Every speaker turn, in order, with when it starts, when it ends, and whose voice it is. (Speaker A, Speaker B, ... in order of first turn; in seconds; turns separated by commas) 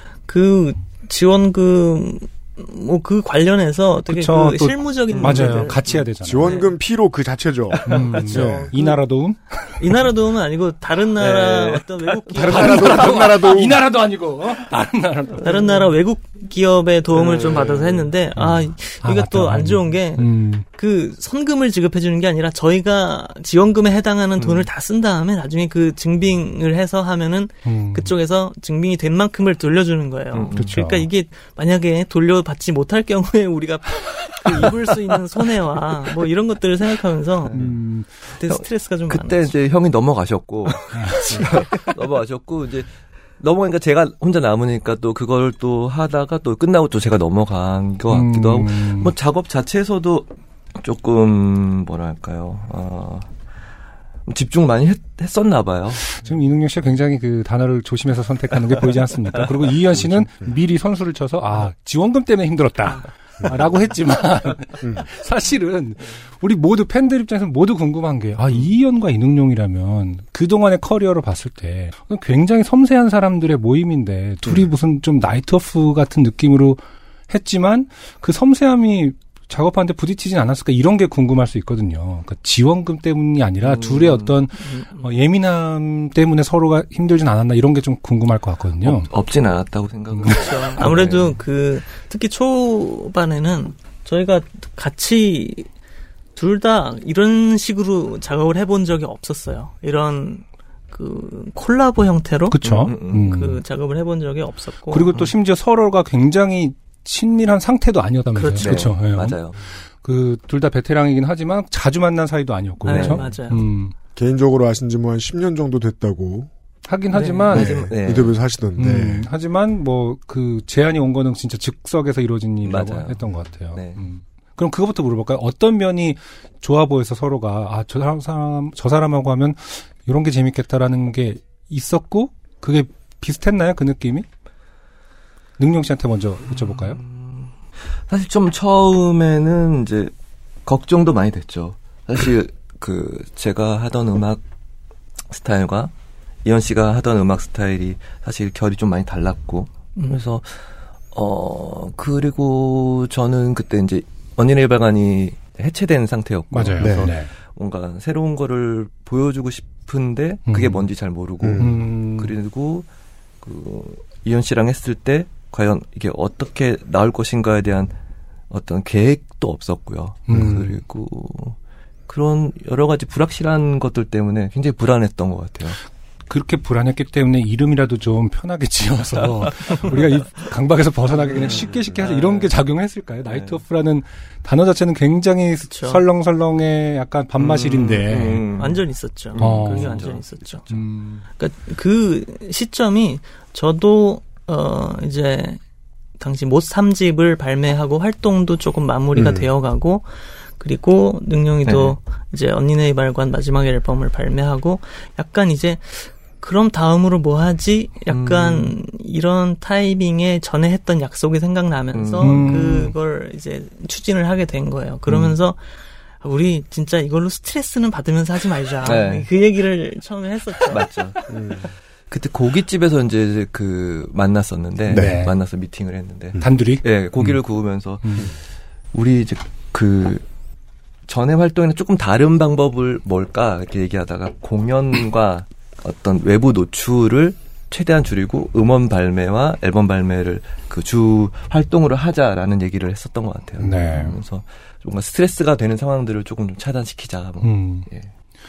Speaker A: 0.2-6.7, Speaker B: 4.1-6.6, Speaker C: 5.1-6.0, Speaker D: 6.2-8.7, Speaker C: 7.7-8.7, Speaker B: 7.9-9.8, Speaker A: 8.2-9.1, Speaker A: 9.8-13.1, Speaker C: 11.1-13.3, Speaker D: 12.4-13.9, Speaker B: 12.4-15.9, Speaker A: 15.4-37.5, Speaker C: 17.1-18.2, Speaker B: 18.4-20.7, Speaker C: 24.4-24.7, Speaker B: 27.6-28.2, Speaker C: 30.3-30.8, Speaker B: 30.5-31.1, Speaker C: 37.4-37.8, Speaker B: 37.5-38.1, Speaker A: 38.3-39.5, Speaker C: 38.4-53.3, Speaker B: 40.9-41.5, Speaker B: 48.1-49.1, Speaker C: 54.3-56.2, Speaker B: 56.0-89.1, Speaker C: 59.3-59.7, Speaker D: 59.9-60.5, Speaker D: 63.4-63.8, Speaker D: 64.8-65.1, Speaker C: 83.6-84.4, Speaker A: 84.6-85.2, Speaker C: 88.8-91.4, Speaker B: 90.1-90.5, Speaker A: 90.3-95.7, Speaker A: 96.4-102.6, Speaker B: 102.5-103.6, Speaker C: 102.6-103.4, Speaker A: 103.3-105.1, Speaker B: 104.9-113.9, Speaker A: 108.3-109.0, Speaker C: 108.6-109.6, Speaker C: 112.8-113.5, Speaker A: 112.9-113.7, Speaker D: 114.2-116.5, Speaker B: 116.8-117.9, Speaker C: 117.1-118.4, Speaker D: 117.5-119.3, Speaker B: 118.8-134.3, Speaker C: 122.6-124.0, Speaker B: 135.6-137.0, Speaker C: 136.5-137.5, Speaker C: 138.1-140.1, Speaker C: 140.7-144.4, Speaker C: 145.3-145.9, Speaker C: 146.4-162.9, Speaker A: 150.0-150.2, Speaker B: 156.5-157.3, Speaker D: 156.8-157.1, Speaker B: 160.5-160.9, Speaker D: 161.4-162.0, Speaker B: 161.6-162.4, Speaker C: 163.4-167.9, Speaker C: 168.5-175.8, Speaker B: 170.3-170.7, Speaker D: 170.3-170.7, Speaker B: 176.3-188.4, Speaker C: 179.5-180.0, Speaker C: 181.1-182.6, Speaker C: 183.2-183.6, Speaker A: 185.6-186.0, Speaker C: 187.3-190.8, Speaker D: 188.0-188.4, Speaker A: 188.6-190.6, Speaker B: 189.4-190.1, Speaker B: 190.7-191.2, Speaker A: 191.4-195.6, Speaker A: 196.2-221.3, Speaker D: 199.1-199.5, Speaker C: 201.7-202.0, Speaker C: 208.1-208.8, Speaker C: 211.9-212.6, Speaker B: 212.2-213.0, Speaker C: 215.1-215.4, Speaker C: 218.8-219.3, Speaker C: 220.7-221.4, Speaker D: 221.3-221.7, Speaker C: 222.1-228.3, Speaker D: 224.9-225.2, Speaker B: 224.9-225.3, Speaker B: 226.4-227.4, Speaker B: 228.0-228.3, Speaker C: 228.9-230.2, Speaker C: 231.1-248.1, Speaker B: 243.6-244.2, Speaker B: 247.4-247.9